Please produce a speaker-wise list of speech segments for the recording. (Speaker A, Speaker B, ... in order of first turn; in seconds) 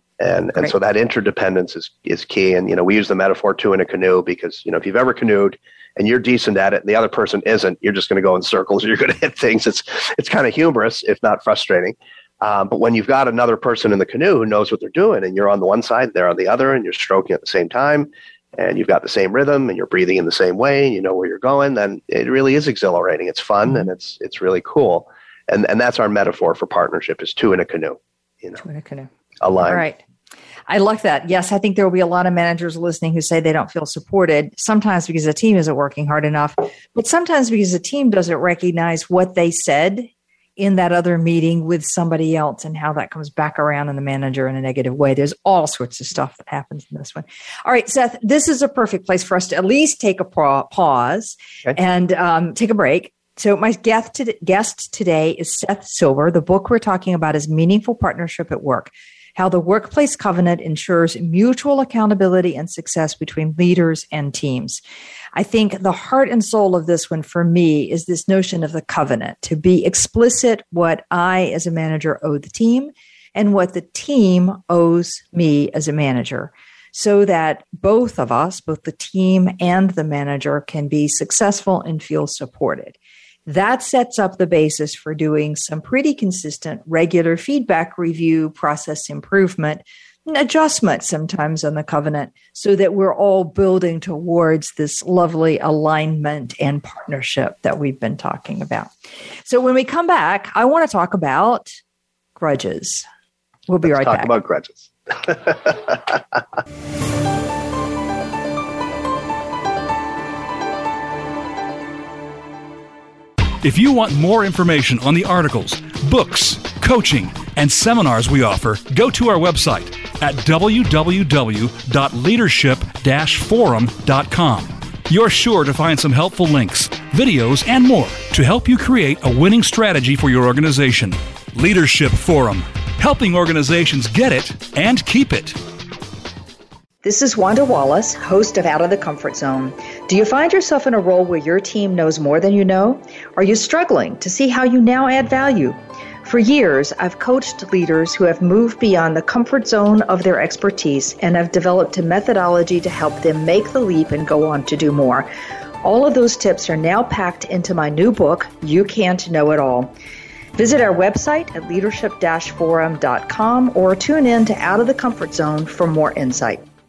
Speaker A: 0.2-28.6, 29.4-29.8, 103.8-106.2
Speaker B: 28.6-29.1, 29.6-30.0, 30.7-64.8, 65.3-98.9, 99.5-101.8, 102.3-103.0, 103.7-104.3, 137.0-155.3, 155.8-159.9, 160.6-166.6
Speaker C: 113.6-135.6